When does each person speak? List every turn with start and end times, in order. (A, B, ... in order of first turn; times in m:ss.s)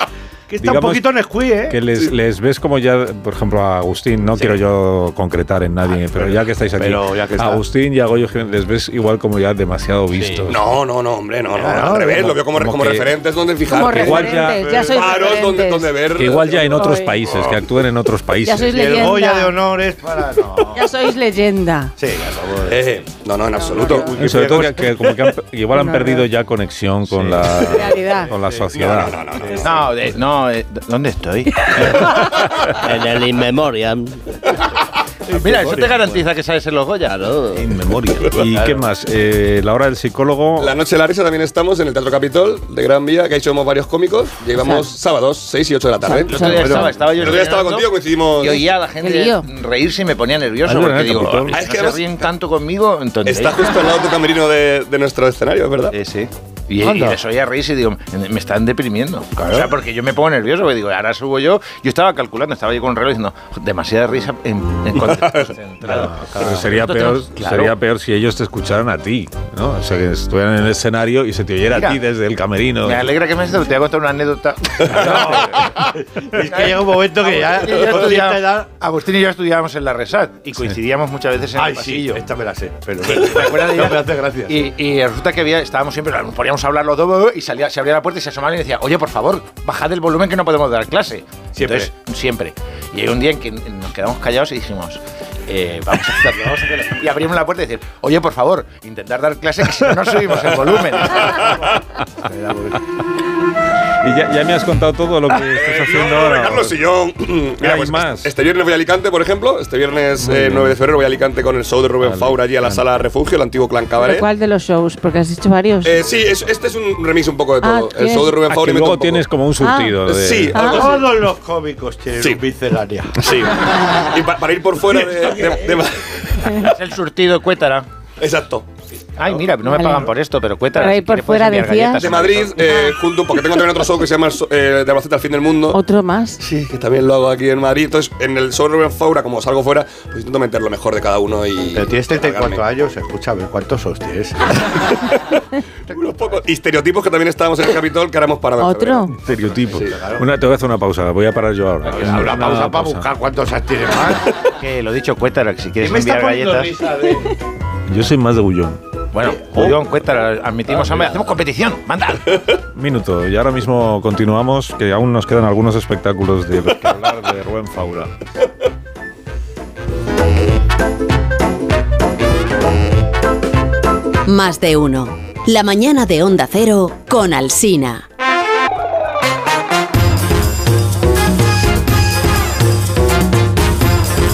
0:00.5-0:01.8 A
0:00.6-0:01.1 B
0:01.6-0:10.6 B
0:06.8-0:07.6 A
0:10.5-0:16.6 C
0:11.5-0:12.4 A
0:12.5-0:13.1 B
0:13.7-0:15.9 D
0:13.8-0:14.7 B
0:14.4-0:15.4 A
0:16.1-0:19.1 B
0:16.7-0:17.2 D
0:18.4-0:19.6 D
0:18.7-0:20.9 A
0:20.7-0:21.9 D
0:22.0-0:22.9 A
0:22.6-0:24.1 C
0:23.6-0:24.1 D
0:23.7-0:25.2 A
0:24.1-0:29.2 B
0:25.7-0:26.2 D
0:27.5-0:30.0 A
0:27.7-0:28.3 D
0:28.7-0:29.8 C
0:29.6-0:32.1 E
0:32.8-0:34.4 F
0:35.3-0:36.2 A
0:35.3-0:37.1 E
0:37.0-0:37.7 F
0:37.5-0:40.8 B
0:38.5-0:38.8 A
0:40.6-0:48.6 C
0:46.0-0:46.9 D
0:46.2-0:53.8 E
0:46.4-0:47.0 A
0:49.0-0:49.5 D
0:50.6-0:51.6 B
0:51.5-0:52.1 C
0:53.2-0:56.0 C
0:55.9-1:07.7 E
0:56.8-0:57.2 A
0:59.4-0:59.7 A
1:05.0-1:05.5 C
1:05.9-1:06.7 A
1:05.9-1:13.1 B
1:11.7-1:12.0 E
1:12.8-1:22.2 E
1:14.9-1:18.7 A
1:21.5-1:24.7 A
1:23.0-1:41.5 E
1:31.5-1:31.9 A
1:36.4-1:36.9 A
1:41.3-1:41.7 A
1:42.2-1:42.8 A
1:44.0-1:46.8 B
1:45.4-1:54.3 C
1:47.6-1:48.3 B
1:50.2-1:50.8 B
1:52.0-1:52.8 B
1:54.0-1:56.0 D
1:55.8-1:59.2 C
1:57.6-1:58.4 D
1:58.5-2:00.6 B
1:59.6-2:01.0 D
2:00.1-2:01.1 C
2:00.5-2:03.5 A
2:03.2-2:06.7 C
2:05.0-2:05.6 A
2:06.6-2:07.9 E
2:08.2-2:08.7 C
2:09.2-2:12.6 E
2:09.7-2:10.1 D
2:10.8-2:12.3 D
2:12.0-2:15.8 C
2:15.7-2:16.4 D
2:16.4-2:22.6 C
2:21.8-2:24.6 A
2:25.9-2:30.0 C
2:28.6-2:29.1 D
2:29.1-2:33.1 B
2:29.8-2:30.3 A
2:31.9-2:34.3 A
2:34.5-2:36.7 E
2:35.8-2:37.4 A
2:37.9-2:38.8 B
2:39.1-2:42.4 E
2:39.2-2:39.8 A
2:40.8-2:41.2 A
2:42.7-2:48.1 B
2:54.2-2:58.0 G